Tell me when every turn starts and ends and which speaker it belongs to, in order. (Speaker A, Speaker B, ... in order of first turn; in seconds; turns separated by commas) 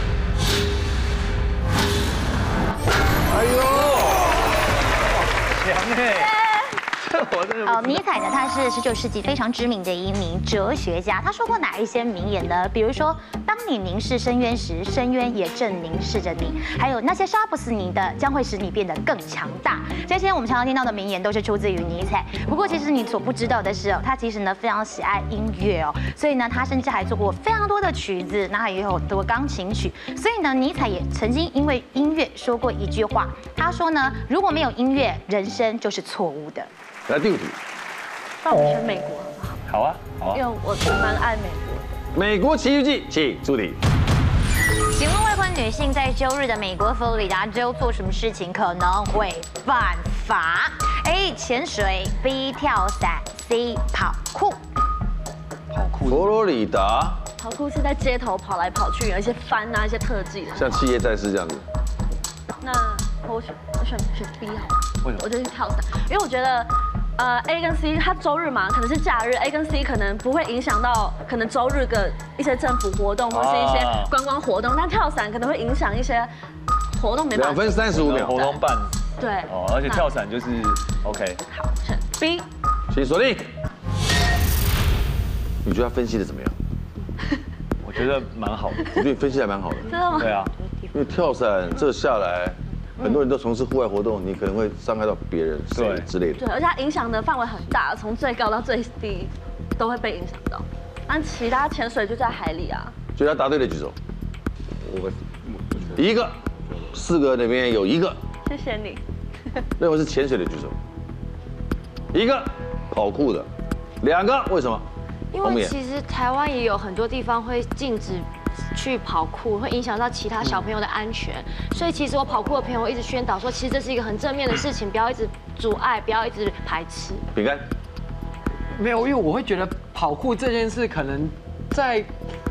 Speaker A: 3.3-4.5, Speaker B: 5.2-6.3, Speaker C: 6.2-6.7, Speaker B: 7.0-8.0, Speaker D: 7.7-36.7, Speaker A: 37.1-37.6, Speaker C: 38.4-39.6, Speaker B: 39.7-40.4, Speaker C: 40.3-42.0, Speaker A: 42.1-43.8, Speaker D: 44.9-54.6, Speaker B: 55.7-56.4, Speaker A: 56.0-57.2, Speaker C: 57.4-60.8, Speaker A: 60.5-61.6, Speaker C: 62.6-76.3, Speaker B: 73.3-74.1, Speaker C: 76.9-78.6, Speaker A: 77.3-78.4, Speaker B: 77.9-78.9, Speaker C: 79.2-80.1, Speaker B: 79.5-81.4, Speaker C: 81.5-82.5, Speaker A: 82.9-83.5, Speaker A: 85.6-86.5, Speaker B: 87.8-89.0, Speaker A: 88.9-89.9, Speaker C: 89.9-90.4, Speaker B: 90.2-90.5, Speaker A: 90.9-96.4, Speaker B: 95.7-96.1, Speaker C: 96.4-102.9, Speaker A: 103.2-104.0, Speaker A: 105.9-106.4, Speaker A: 106.9-108.2, Speaker C: 108.5-109.0, Speaker A: 109.8-110.8, Speaker A: 112.1-113.5, Speaker A: 114.0-114.8, Speaker E: 115.3-127.2, Speaker A: 115.4-115.7, Speaker A: 127.3-127.7, Speaker F: 128.7-132.1